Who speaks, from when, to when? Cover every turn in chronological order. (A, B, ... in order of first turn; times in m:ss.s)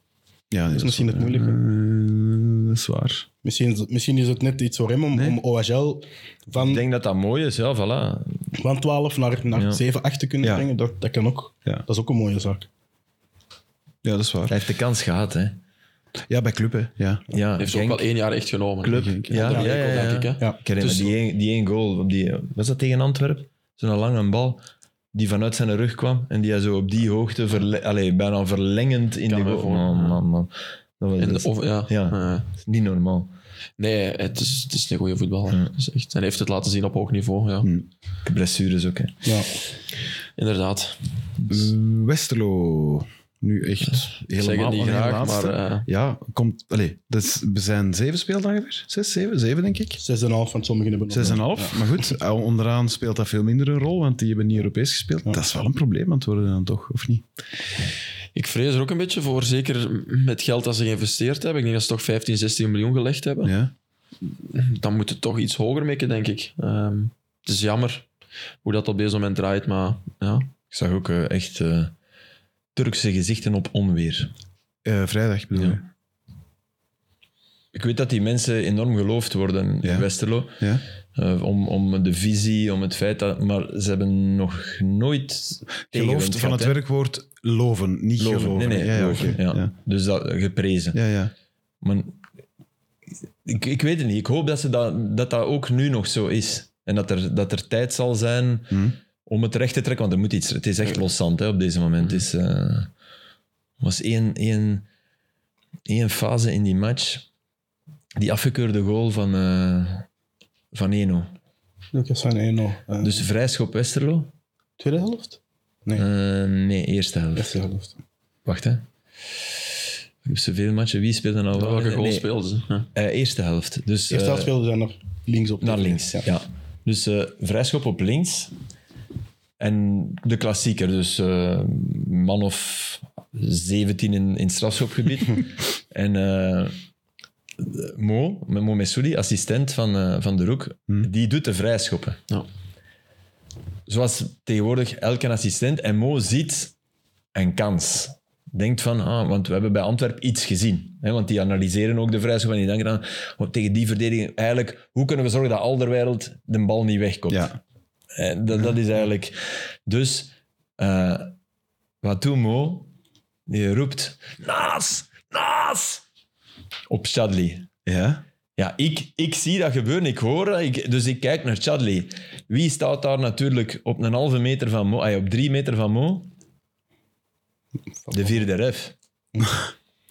0:00.5-0:03.2 A
0:00.7-0:01.6 B
0:03.4-0:06.8 B
0:05.1-0:05.4 A
0:06.6-0:08.4 C
0:08.6-0:12.7 B
0:09.5-0:09.8 C
0:10.4-0:10.7 A
0:14.0-0:14.6 A
0:14.5-0:15.6 C
0:16.3-0:17.2 A
0:17.3-0:18.0 C
0:17.6-0:21.1 D
0:18.8-0:24.6 C
0:18.9-0:19.6 A
0:19.5-0:20.6 B
0:25.1-0:33.3 C
0:29.3-0:30.2 D
0:31.2-0:32.5 D
0:33.8-0:37.7 D
0:37.6-0:37.9 A
0:38.2-0:39.1 C
0:40.4-0:41.0 D
0:41.5-0:50.0 A
0:44.4-0:45.9 D
0:50.0-0:52.1 B
0:51.1-0:57.2 A
0:58.4-1:03.5 D
1:03.4-1:03.7 A
1:04.4-1:08.1 D
1:08.6-1:10.5 D
1:10.7-1:11.9 C
1:12.8-1:14.3 C
1:14.8-1:15.8 A
1:17.7-1:20.6 C
1:19.8-1:20.1 A
1:21.2-1:26.8 C
1:25.9-1:29.7 A
1:28.2-1:31.0 C
1:30.9-1:31.3 A
1:31.8-1:32.2 C
1:33.4-1:42.9 C
1:43.8-1:44.8 C
1:45.9-1:47.2 C
1:48.2-1:50.1 C
1:50.7-1:51.3 C
1:51.9-1:53.2 B
1:53.0-1:54.3 C
1:54.8-1:56.1 B
1:56.0-1:57.6 C
1:57.4-1:57.9 B
1:58.5-1:58.8 C
2:00.3-2:02.2 C
2:01.6-2:02.9 D
2:02.9-2:04.5 C
2:04.1-2:06.3 B
2:05.6-2:08.5 C
2:09.6-2:16.8 C
2:17.6-2:22.2 C
2:23.9-2:26.7 C
2:27.4-2:37.5 C
2:37.3-2:37.6 A
2:38.2-2:39.4 C
2:39.9-2:41.3 C
2:42.0-2:42.9 C
2:43.5-2:46.0 C
2:46.9-2:47.7 C
2:47.9-2:48.2 A
2:48.6-2:56.3 C
2:58.1-2:58.4 B
2:58.1-2:58.9 C